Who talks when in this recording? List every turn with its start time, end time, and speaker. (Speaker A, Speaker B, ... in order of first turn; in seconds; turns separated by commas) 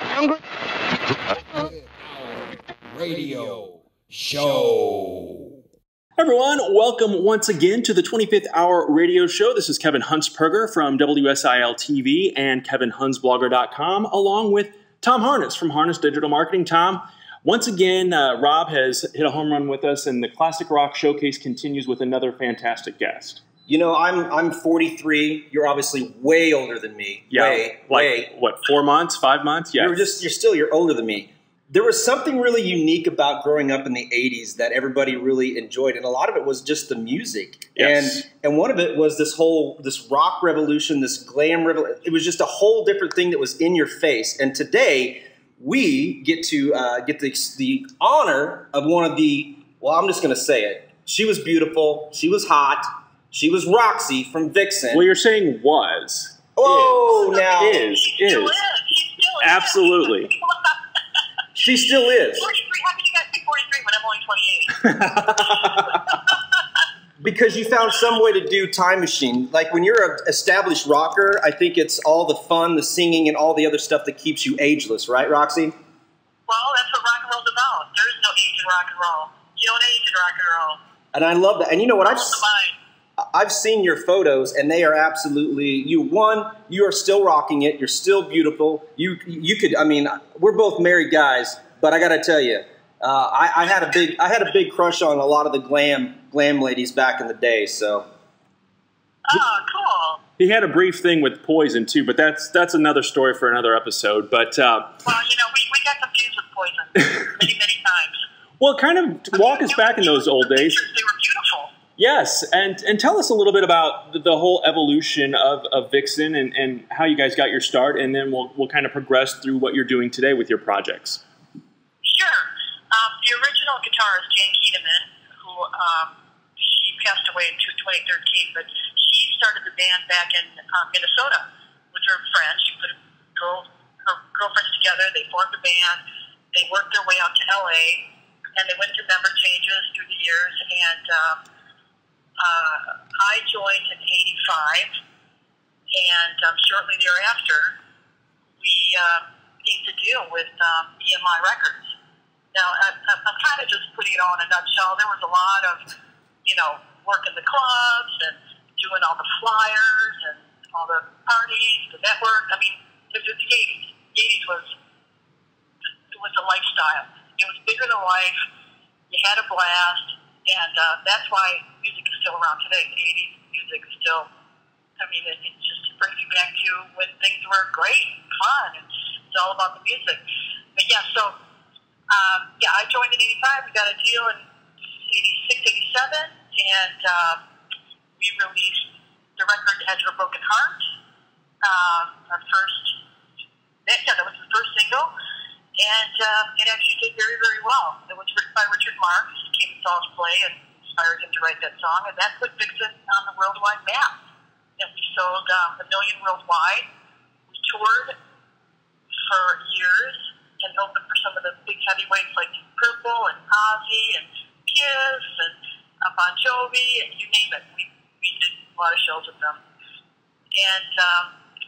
Speaker A: 1.3-5.6, Speaker B: 6.2-23.4, Speaker C: 23.7-28.3, Speaker B: 27.3-30.2, Speaker C: 29.8-55.0, Speaker B: 37.8-38.2, Speaker B: 54.9-58.5, Speaker C: 56.5-57.9, Speaker D: 57.1-60.7, Speaker B: 59.4-60.3, Speaker C: 61.5-62.5, Speaker D: 62.4-66.4, Speaker B: 64.8-66.1, Speaker C: 67.2-75.7, Speaker D: 76.5-80.8, Speaker C: 81.1-82.4, Speaker D: 82.0-82.8, Speaker C: 83.2-98.1, Speaker D: 99.3-100.2, Speaker B: 100.4-104.9, Speaker D: 105.0-108.2, Speaker B: 108.6-110.8, Speaker D: 109.3-111.7, Speaker B: 112.0-121.2, Speaker D: 122.0-136.0, Speaker D: 136.5-138.0, Speaker D: 138.6-141.4, Speaker D: 142.4-145.0, Speaker D: 145.9-147.8, Speaker D: 148.6-151.9, Speaker D: 152.5-155.8, Speaker D: 156.4-164.7, Speaker D: 166.1-168.4, Speaker D: 169.1-174.3, Speaker D: 175.0-180.2, Speaker D: 180.8-181.4, Speaker D: 182.1-184.4, Speaker D: 185.0-187.4, Speaker D: 188.2-190.9, Speaker D: 191.6-193.0, Speaker D: 193.8-195.1, Speaker D: 195.8-204.2, Speaker D: 204.8-206.9, Speaker D: 207.5-208.2, Speaker D: 209.2-219.6, Speaker D: 220.6-221.3